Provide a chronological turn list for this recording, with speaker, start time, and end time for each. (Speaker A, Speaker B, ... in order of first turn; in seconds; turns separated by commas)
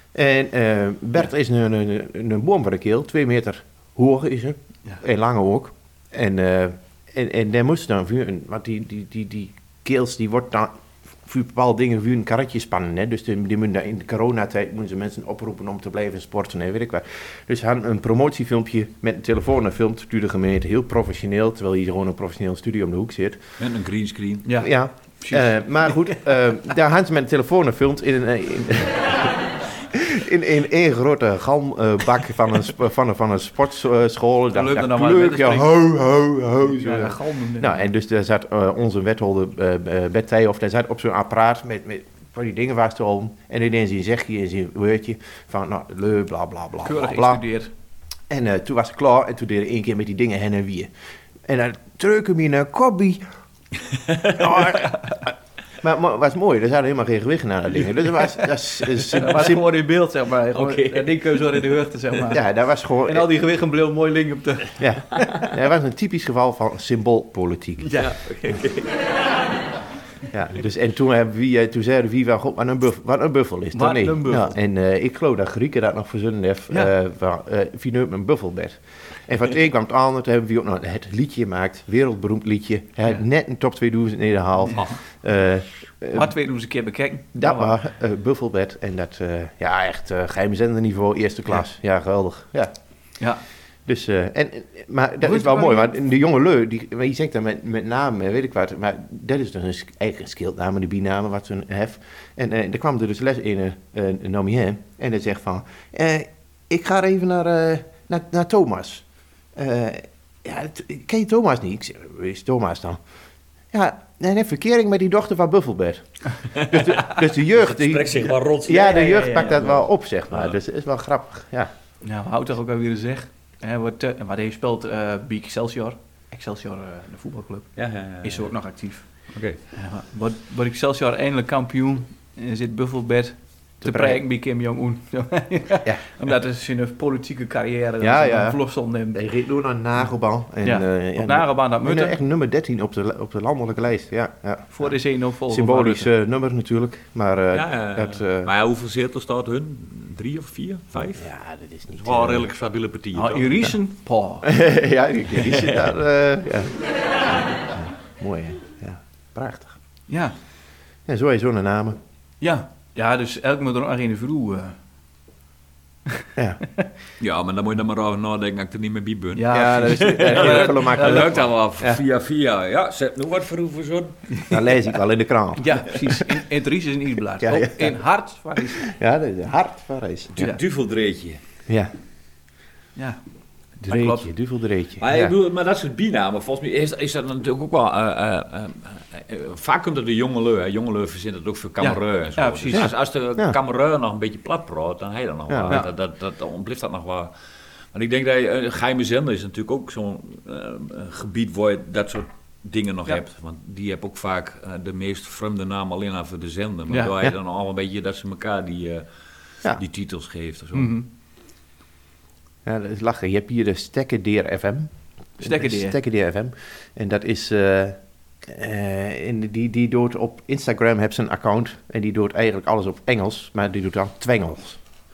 Speaker A: 0.1-23.4, Speaker B: 23.6-24.5, Speaker C: 24.4-26.2, Speaker A: 24.6-29.4, Speaker A: 29.9-47.4, Speaker C: 34.5-35.8, Speaker C: 36.6-37.8, Speaker C: 46.8-47.7, Speaker A: 48.3-50.9, Speaker A: 51.5-53.2, Speaker A: 54.2-59.6, Speaker C: 59.1-62.4, Speaker B: 60.5-61.6, Speaker A: 62.3-63.3, Speaker C: 63.1-65.5, Speaker A: 64.8-68.0, Speaker C: 67.9-68.1, Speaker B: 68.0-69.0, Speaker A: 70.3-86.3, Speaker C: 73.7-74.6, Speaker C: 86.1-87.4, Speaker A: 87.3-92.7, Speaker A: 93.9-113.0, Speaker C: 95.2-96.0, Speaker A: 113.7-121.7, Speaker B: 116.6-120.6, Speaker C: 118.9-119.7, Speaker C: 122.0-139.2, Speaker B: 127.8-128.5, Speaker B: 129.3-129.6, Speaker A: 133.8-134.2, Speaker A: 138.0-148.5, Speaker C: 140.6-142.2, Speaker C: 144.7-146.1, Speaker B: 147.5-151.3, Speaker A: 151.0-152.4, Speaker B: 152.0-153.6, Speaker C: 153.2-154.5, Speaker A: 154.4-159.7, Speaker C: 160.1-160.3, Speaker A: 161.1-162.0, Speaker C: 162.4-164.8, Speaker A: 166.4-166.6, Speaker B: 167.2-174.3, Speaker C: 169.3-171.4, Speaker A: 169.5-172.0, Speaker A: 174.5-176.1, Speaker C: 175.6-178.9, Speaker A: 177.4-178.0, Speaker A: 178.6-180.4, Speaker B: 180.4-181.4, Speaker A: 181.7-181.9, Speaker A: 183.8-185.3, Speaker C: 183.8-184.3, Speaker B: 185.0-197.3, Speaker C: 191.8-192.9, Speaker A: 192.7-193.6, Speaker A: 195.5-195.8, Speaker B: 197.9-209.1, Speaker B: 209.6-211.0, Speaker C: 210.8-211.1, Speaker A: 212.7-224.8, Speaker C: 215.4-216.0